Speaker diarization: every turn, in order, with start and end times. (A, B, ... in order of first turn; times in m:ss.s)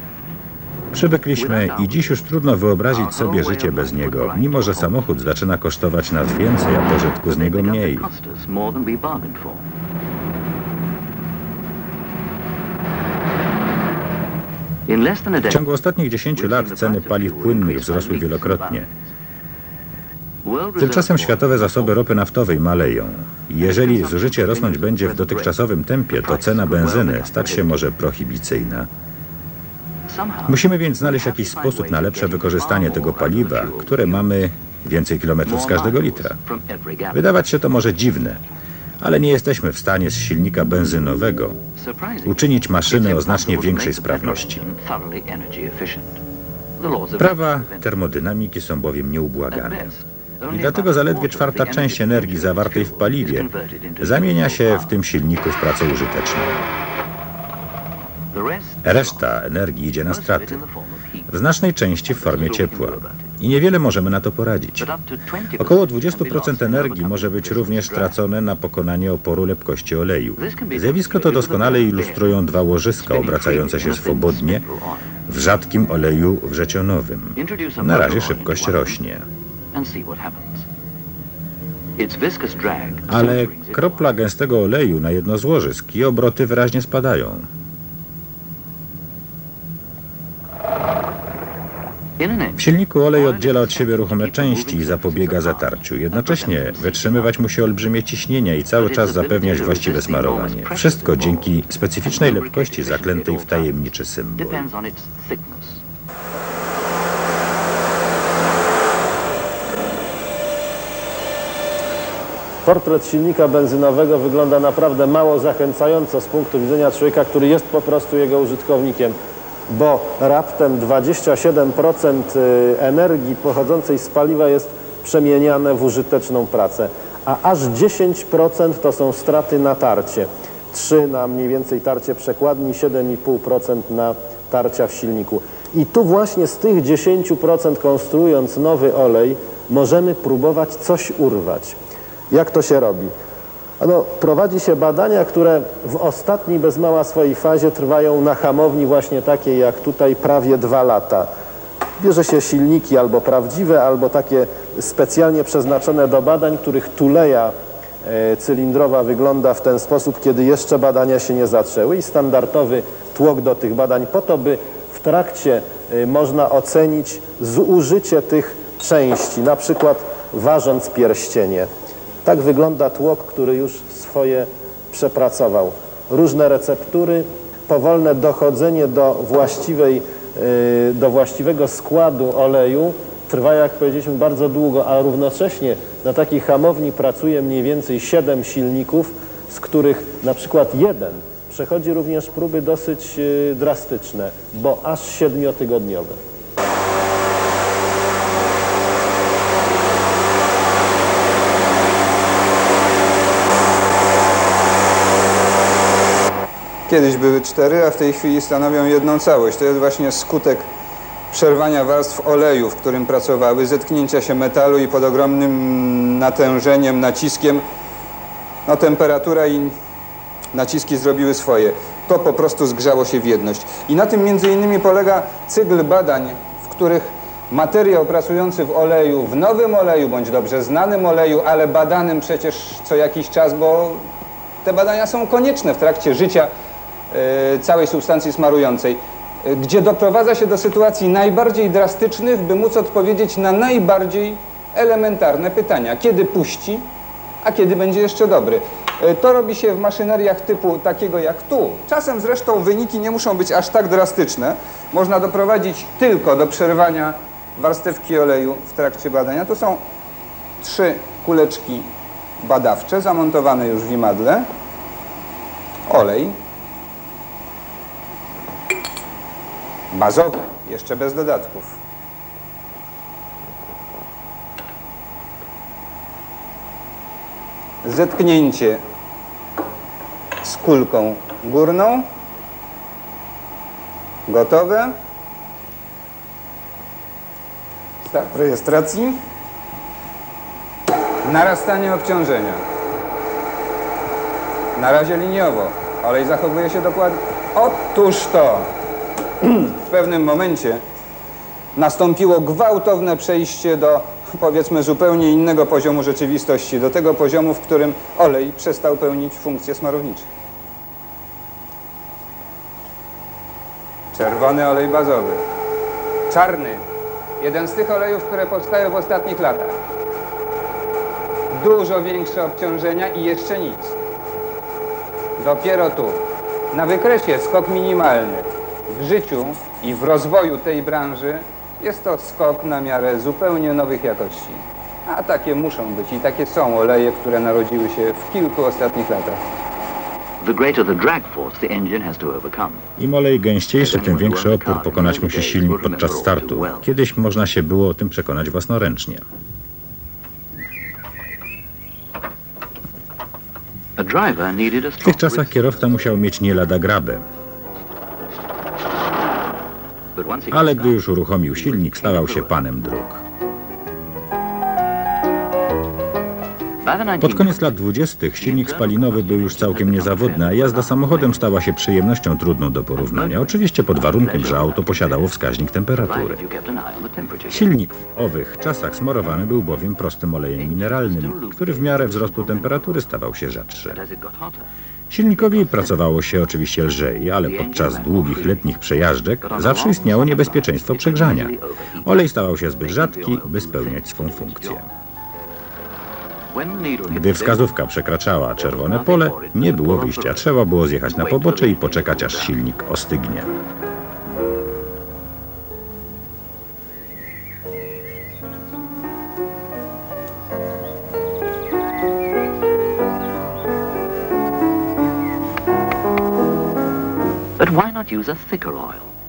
0:00.9-0:08.1 A
0:01.3-0:02.2 B
0:02.9-0:05.1 B
0:07.4-0:09.6 B
0:14.9-0:15.6 B
0:15.4-0:18.9 A
0:16.3-0:19.1 B
0:20.4-0:21.9 B
0:20.8-0:28.9 A
0:23.6-0:25.6 B
0:26.1-0:27.8 B
0:30.1-0:34.3 B
0:30.5-0:36.4 A
0:35.4-0:37.3 B
0:37.1-0:38.4 A
0:39.0-0:41.6 A
0:41.8-0:46.2 B
0:42.2-0:44.6 A
0:46.8-0:47.9 B
0:47.2-0:49.9 A
0:49.5-0:55.0 B
0:50.5-0:53.5 A
0:54.0-0:56.6 A
0:58.3-0:59.4 B
0:58.8-1:00.6 A
1:00.0-1:01.3 B
1:01.3-1:04.9 A
1:02.1-1:03.4 B
1:04.8-1:08.2 B
1:05.6-1:14.6 A
1:10.4-1:15.1 B
1:15.3-1:19.2 A
1:17.4-1:19.0 B
1:19.7-1:20.7 B
1:22.0-1:24.1 B
1:23.1-1:27.4 A
1:32.2-1:37.4 B
1:32.6-1:44.7 A
1:38.8-1:45.8 B
1:52.6-1:59.2 C
1:59.7-2:21.8 C
2:22.3-2:23.1 C
2:23.8-2:31.3 C
2:32.0-2:51.7 C
2:52.2-3:16.2 C
3:26.9-3:30.7 D
3:31.3-3:37.6 D
3:38.6-3:39.7 D
3:40.5-3:54.0 D
3:54.6-3:56.5 D
3:57.1-4:06.9 D
4:07.4-4:19.8 D
4:20.6-4:24.5 D
4:25.9-4:26.4 D
4:29.9-4:31.8 D
4:37.8-4:38.8 D
4:40.4-4:42.1 D
4:44.3-4:44.9 D
4:48.0-4:49.2 D
4:51.2-4:52.6 D
4:54.8-4:58.7 D
4:59.4-5:00.8 D
5:01.8-5:10.3 D
5:14.1-5:15.4 D
5:16.3-5:16.8 D
5:17.4-5:19.8 D
5:21.5-5:24.0 D
5:25.4-5:39.4 D
5:40.4-5:42.8 B
5:43.0-5:49.2 A
5:43.8-5:46.9 B
5:54.0-5:55.7 B
5:55.0-5:57.2 A
6:00.1-6:02.6 B
6:00.5-6:03.2 A
6:06.8-6:07.8 B
6:07.2-6:16.4 A
6:08.4-6:11.4 B
6:13.0-6:15.2 B
6:16.0-6:17.7 B
6:17.5-6:24.0 A
6:20.6-6:23.0 B
6:23.9-6:24.7 B
6:25.1-6:34.9 A
6:25.4-6:25.9 B
6:27.4-6:28.6 B
6:29.4-6:32.1 B
6:32.8-6:34.8 B
6:36.5-6:37.7 B
6:37.1-6:43.5 A
6:38.6-6:40.5 B
6:41.1-6:42.6 B
6:57.6-6:59.1 B